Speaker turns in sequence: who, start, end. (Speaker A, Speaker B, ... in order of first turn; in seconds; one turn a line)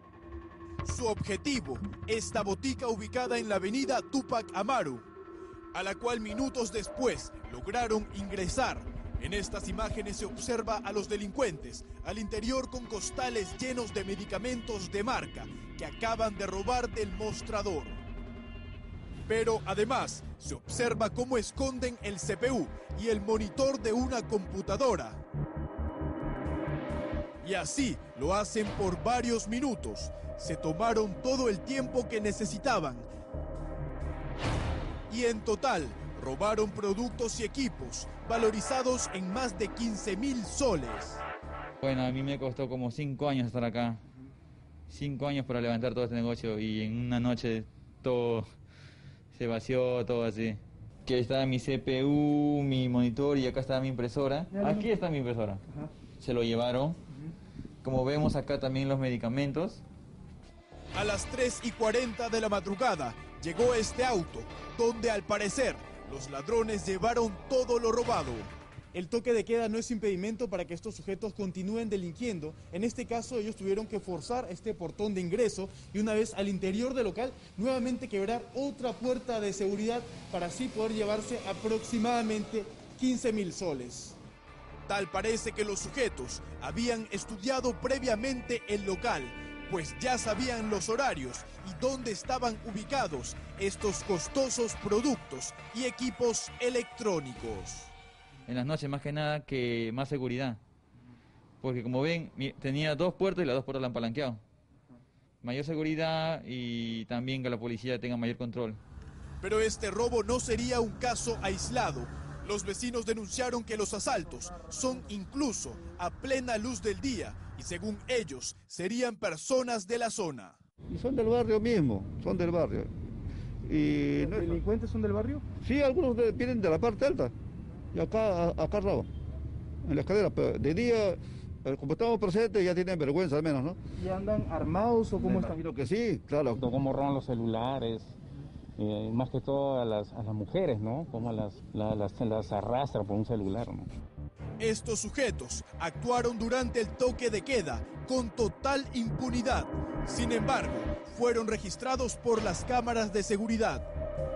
Speaker A: 0.8-5.0
Speaker A: 5.7-18.0
Speaker A: 19.3-25.2
Speaker A: 27.4-33.1
Speaker A: 35.1-41.2
Speaker B: 41.8-44.0
Speaker B: 44.9-48.5
Speaker B: 49.3-55.6
Speaker C: 54.5-54.9
Speaker B: 56.2-57.0
Speaker B: 57.8-59.8
Speaker A: 60.9-68.5
Speaker C: 68.9-84.2
Speaker A: 84.9-97.9
Speaker B: 98.5-100.6
Speaker B: 101.6-104.4
Speaker B: 105.4-108.8
Speaker A: 109.4-120.6
Speaker D: 120.9-122.9
Speaker D: 123.6-124.6
Speaker C: 124.2-125.4
Speaker D: 125.6-127.3
Speaker D: 127.9-129.1
Speaker D: 129.8-133.8
Speaker C: 134.0-135.6
Speaker D: 135.1-136.6
Speaker E: 136.5-138.2
Speaker E: 138.8-143.9
Speaker A: 144.6-153.9